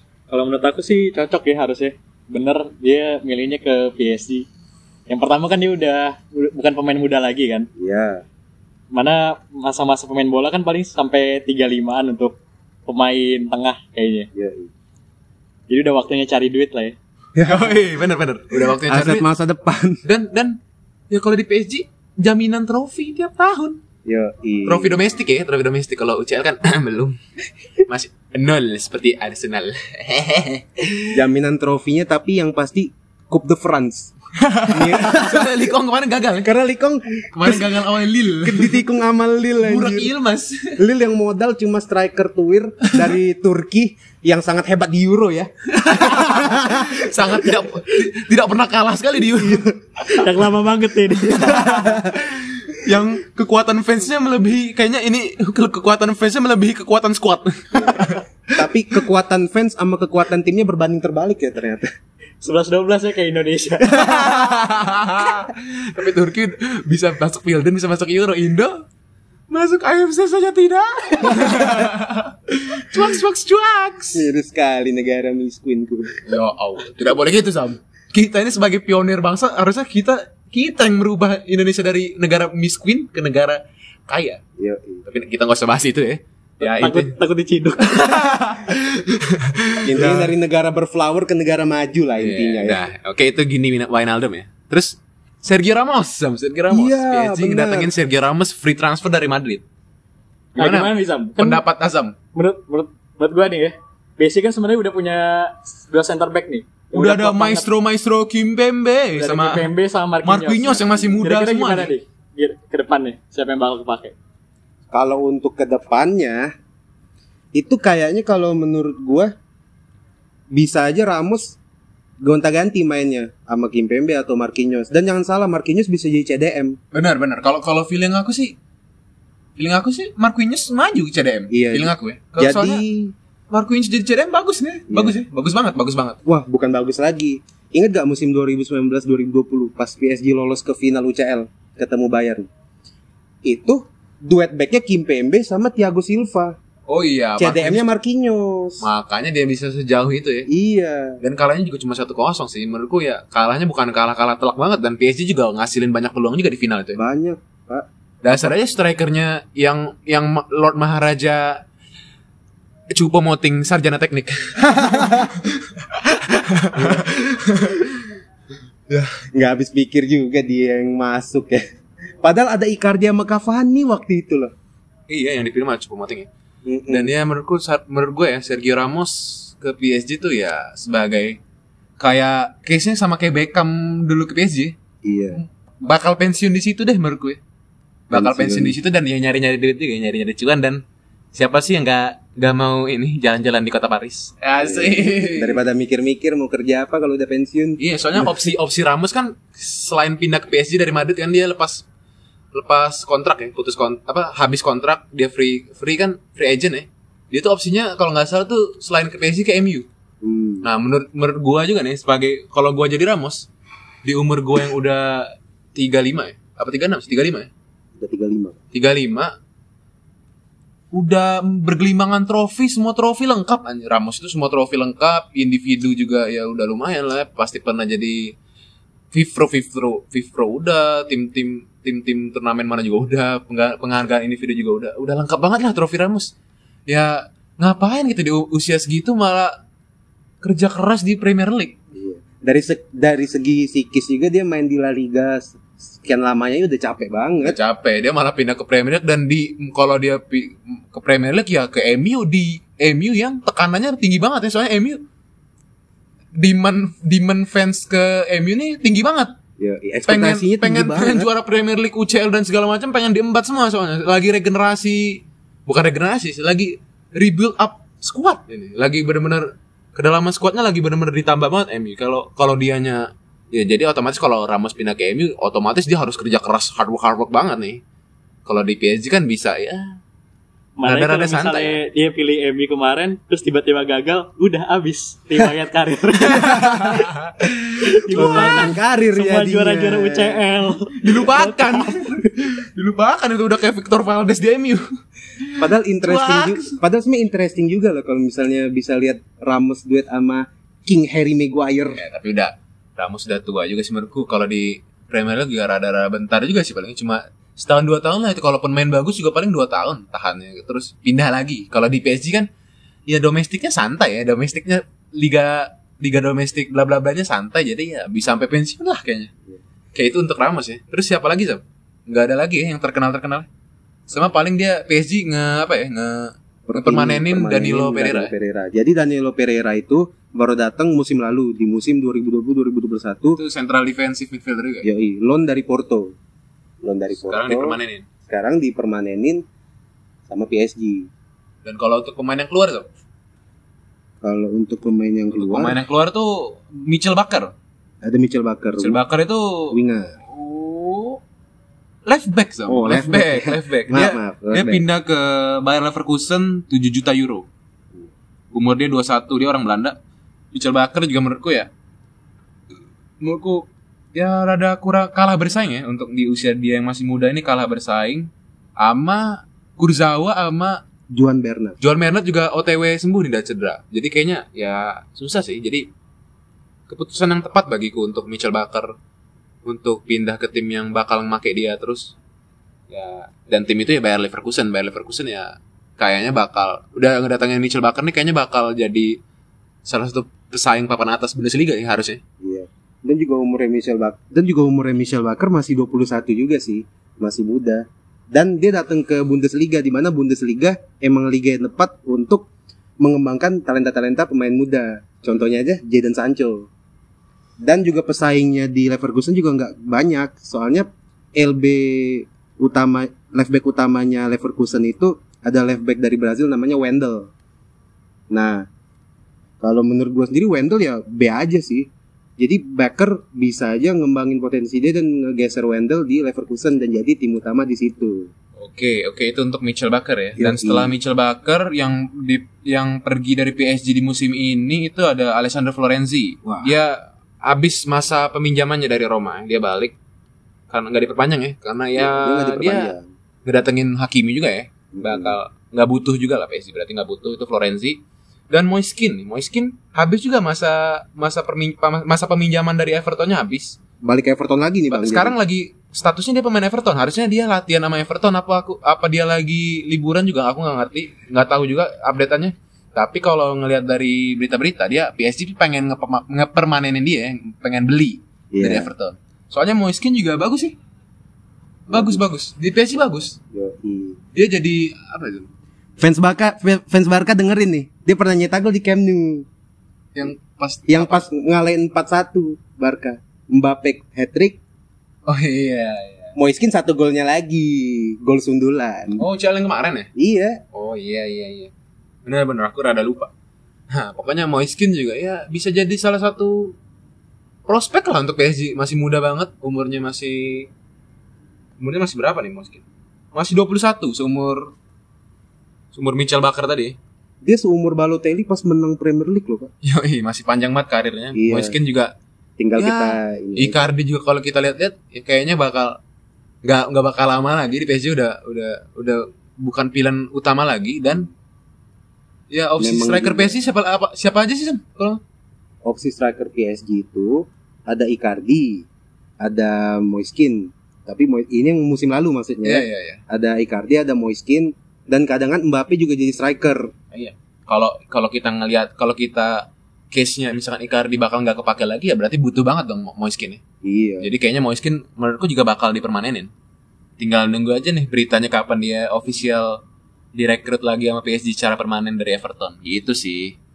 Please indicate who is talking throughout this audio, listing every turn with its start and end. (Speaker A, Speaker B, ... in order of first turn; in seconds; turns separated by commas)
Speaker A: 0.3-4.5, Speaker A: 5.1-7.7, Speaker B: 7.8-8.2, Speaker A: 8.9-14.3, Speaker B: 14.3-14.7, Speaker A: 15.7-17.0, Speaker B: 17.4-17.8, Speaker C: 17.4-19.2, Speaker B: 18.6-20.0, Speaker C: 20.0-23.8, Speaker B: 24.1-25.0, Speaker C: 24.7-27.2, Speaker C: 27.9-31.2, Speaker B: 31.1-34.1, Speaker C: 34.4-36.5, Speaker B: 34.7-35.6, Speaker B: 36.4-37.8, Speaker C: 37.3-38.9, Speaker B: 38.4-40.1, Speaker C: 39.6-40.8, Speaker B: 40.8-47.1, Speaker C: 45.7-49.7, Speaker B: 49.4-49.7, Speaker A: 50.0-51.8, Speaker C: 51.3-58.7, Speaker B: 51.6-52.1, Speaker B: 57.8-61.9, Speaker A: 62.4-64.1, Speaker C: 63.9-68.8, Speaker B: 64.1-64.4, Speaker C: 69.5-74.3, Speaker B: 71.3-71.9, Speaker B: 74.1-76.3, Speaker C: 76.3-84.4, Speaker B: 84.6-85.0, Speaker C: 85.0-87.2, Speaker A: 86.6-88.3, Speaker C: 87.8-90.3, Speaker B: 89.8-92.8, Speaker C: 92.2-99.6, Speaker B: 96.7-97.9, Speaker A: 100.6-101.7, Speaker C: 100.6-102.2, Speaker A: 102.3-107.7, Speaker C: 106.9-109.7, Speaker A: 109.2-114.2, Speaker C: 110.2-111.9, Speaker B: 114.9-116.5, Speaker B: 117.5-119.3, Speaker B: 120.5-121.6, Speaker B: 122.2-126.8, Speaker C: 126.9-128.6, Speaker C: 129.6-132.8, Speaker B: 131.5-133.1, Speaker C: 133.5-136.2, Speaker B: 134.9-135.2, Speaker B: 136.2-142.5, Speaker B: 143.4-146.6, Speaker C: 146.9-147.8, Speaker B: 147.4-148.8, Speaker C: 148.8-150.5, Speaker B: 150.5-151.2, Speaker C: 151.2-157.0, Speaker B: 157.0-158.5, Speaker C: 158.2-161.6, Speaker C: 162.9-168.0, Speaker B: 164.6-165.4, Speaker B: 166.7-167.1, Speaker B: 168.9-171.6, Speaker B: 172.2-174.5, Speaker C: 175.1-176.3, Speaker B: 176.7-177.1, Speaker C: 176.9-181.4, Speaker C: 182.0-184.8, Speaker B: 185.0-185.4, Speaker C: 185.4-187.4, Speaker C: 188.1-190.8, Speaker B: 188.1-188.8, Speaker C: 191.3-195.6, Speaker B: 194.6-198.5, Speaker C: 197.8-201.8, Speaker C: 202.5-209.9, Speaker B: 210.2-210.7, Speaker C: 210.6-213.5, Speaker C: 214.0-217.5, Speaker B: 218.0-218.6, Speaker C: 218.7-219.3, Speaker C: 220.9-228.3, Speaker C: 229.1-236.3, Speaker C: 236.9-239.5, Speaker C: 240.4-241.8, Speaker B: 241.9-247.6, Speaker C: 247.4-255.0, Speaker C: 256.4-259.4, Speaker B: 259.6-261.3, Speaker C: 260.1-277.8, Speaker C: 278.5-280.0, Speaker A: 280.8-287.1, Speaker C: 280.8-281.8, Speaker C: 286.3-287.5, Speaker B: 286.3-287.1, Speaker A: 287.8-292.1, Speaker C: 288.1-288.7, Speaker B: 288.1-290.4, Speaker C: 291.0-294.9, Speaker C: 295.4-296.8, Speaker B: 295.6-302.0, Speaker C: 301.9-312.5, Speaker C: 313.1-319.3, Speaker C: 319.9-323.5, Speaker C: 324.1-328.3, Speaker B: 326.7-333.4, Speaker C: 333.4-334.9, Speaker B: 334.8-336.1, Speaker B: 336.8-337.8, Speaker C: 337.2-338.1, Speaker B: 338.3-339.4, Speaker B: 340.3-341.1, Speaker C: 341.6-342.9, Speaker B: 344.2-345.8, Speaker C: 345.3-347.5, Speaker B: 348.0-349.0, Speaker C: 348.8-351.2, Speaker B: 349.7-350.2, Speaker C: 352.1-357.5, Speaker B: 352.7-354.8, Speaker C: 358.5-360.0, Speaker C: 360.5-361.7, Speaker C: 363.2-370.8, Speaker B: 371.1-371.8, Speaker C: 371.8-375.9, Speaker C: 376.9-378.9, Speaker C: 379.6-382.2, Speaker C: 382.9-389.2, Speaker C: 389.9-392.2, Speaker B: 392.4-402.5, Speaker B: 403.0-406.7, Speaker B: 407.6-417.3, Speaker B: 418.3-418.7, Speaker B: 419.6-428.3, Speaker C: 428.6-440.0, Speaker B: 430.4-430.9, Speaker B: 436.4-436.7, Speaker C: 440.7-453.8, Speaker B: 442.0-443.1, Speaker B: 444.9-445.4, Speaker B: 454.0-455.4, Speaker C: 454.9-470.8, Speaker B: 468.5-468.9, Speaker C: 471.9-473.4, Speaker B: 471.9-472.2, Speaker B: 473.5-474.2, Speaker C: 474.3-475.5, Speaker B: 476.0-479.5, Speaker C: 480.1-481.3, Speaker B: 480.9-484.6, Speaker C: 485.3-486.3, Speaker B: 486.4-489.2, Speaker C: 489.2-490.1, Speaker B: 490.2-490.6, Speaker C: 490.7-491.7, Speaker C: 492.2-493.3, Speaker C: 493.9-496.8, Speaker C: 497.7-500.7, Speaker C: 501.8-502.8, Speaker C: 503.3-504.7, Speaker C: 505.9-507.0, Speaker B: 507.4-509.7, Speaker C: 509.8-512.1, Speaker B: 511.3-511.8, Speaker B: 512.6-513.8, Speaker C: 512.8-516.0, Speaker C: 516.6-521.3, Speaker C: 522.5-525.2, Speaker B: 522.8-523.5, Speaker B: 525.8-528.9, Speaker B: 529.4-536.9, Speaker C: 532.6-533.2, Speaker C: 537.1-543.6, Speaker B: 543.8-544.3, Speaker C: 544.2-546.5, Speaker C: 547.2-549.8, Speaker C: 550.3-553.6